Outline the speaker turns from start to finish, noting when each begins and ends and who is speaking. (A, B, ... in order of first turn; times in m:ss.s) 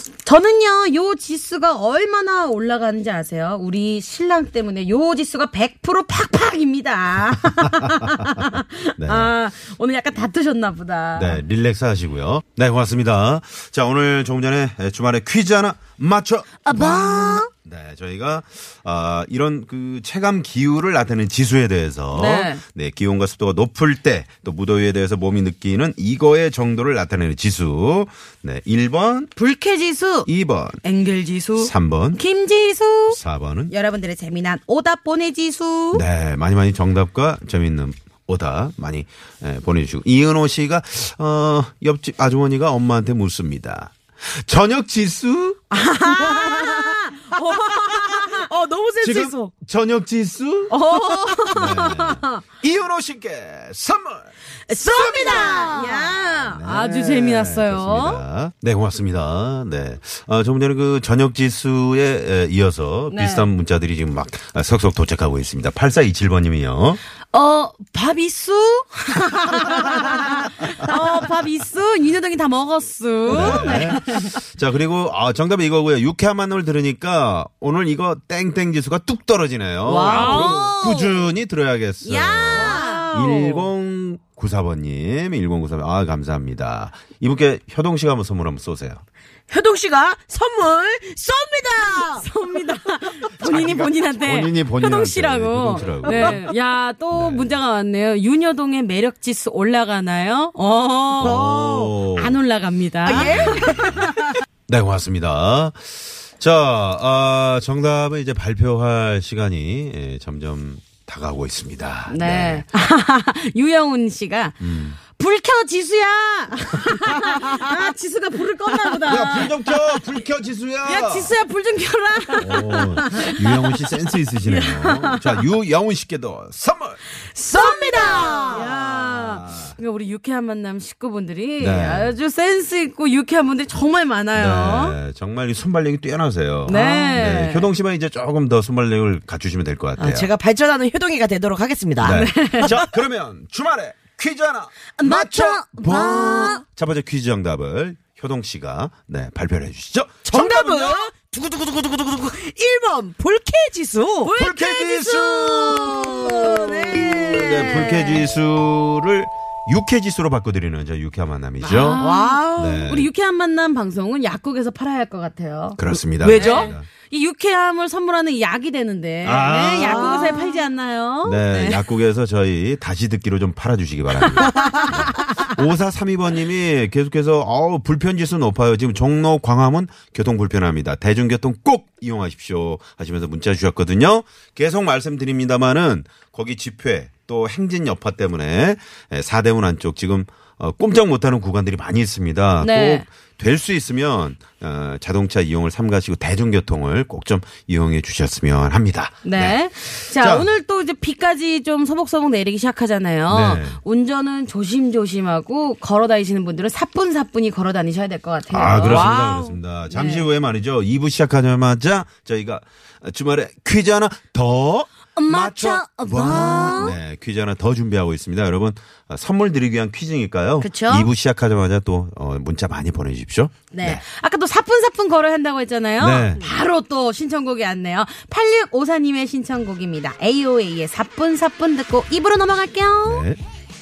0:00.2-0:11.4 A
0:07.5-0:09.3 B
0:11.2-0:29.3 B
0:22.1-0:22.6 A
0:29.4-0:30.3 A
0:30.2-0:30.8 B
0:30.8-0:33.2 A
0:31.6-0:32.2 B
0:33.1-0:33.7 B
0:33.7-0:36.0 A
0:35.9-0:45.6 B
0:45.7-0:48.4 A
0:46.0-0:49.5 C
0:49.0-0:50.7 B
0:50.7-0:52.4 A
0:50.7-0:51.7 C
0:51.5-0:54.3 B
0:54.7-0:56.2 C
0:54.7-0:58.2 A
0:54.9-0:55.8 B
0:56.4-1:07.0 B
1:03.1-1:03.5 A
1:07.3-1:14.2 A
1:13.3-1:29.0 B
1:13.4-1:13.8 C
1:19.8-1:20.6 C
1:20.0-1:21.2 A
1:22.0-1:23.4 A
1:22.5-1:23.6 C
1:29.5-1:32.3 C
1:32.1-1:41.5 A
1:33.4-1:36.4 B
1:36.0-1:36.4 C
1:37.1-1:37.5 B
1:41.2-1:42.4 B
1:41.2-1:42.0 C
1:42.1-1:44.3 A
1:43.0-1:44.1 C
1:43.1-1:44.1 B
1:44.7-1:52.7 B
1:52.1-1:59.5 A
1:54.6-1:55.0 B
1:59.0-2:01.3 B
2:00.8-2:03.7 A
2:02.4-2:07.0 B
2:04.4-2:05.4 A
2:07.4-2:15.0 A
2:07.4-2:08.7 C
2:07.8-2:09.7 B
2:11.6-2:12.1 B
2:14.3-2:20.3 B
2:16.7-2:17.7 A
2:16.7-2:17.2 C
2:20.0-2:22.8 C
2:22.0-2:31.0 B
2:22.0-2:22.8 A
2:25.0-2:26.6 A
2:25.8-2:26.6 C
2:30.2-2:34.3 C
2:34.2-2:38.2 A
2:34.4-2:42.0 B
2:36.2-2:38.0 C
2:41.6-2:51.8 A
2:42.0-2:42.8 C
2:42.5-2:43.1 B
2:45.8-2:46.9 B
2:46.1-2:46.7 C
2:49.2-2:50.2 B
2:49.7-2:50.6 C
2:51.2-3:19.6 B
2:54.3-2:55.3 A
3:12.6-3:13.0 A
3:19.2-3:29.2 A
3:20.1-3:20.5 B
3:23.3-3:23.8 B
3:28.5-3:44.0 B
3:28.8-3:29.5 C
3:29.9-3:30.2 A
3:35.2-3:37.0 A
3:40.6-3:41.1 A
3:43.7-3:53.2 A
3:46.0-3:46.4 B
3:53.0-3:53.4 B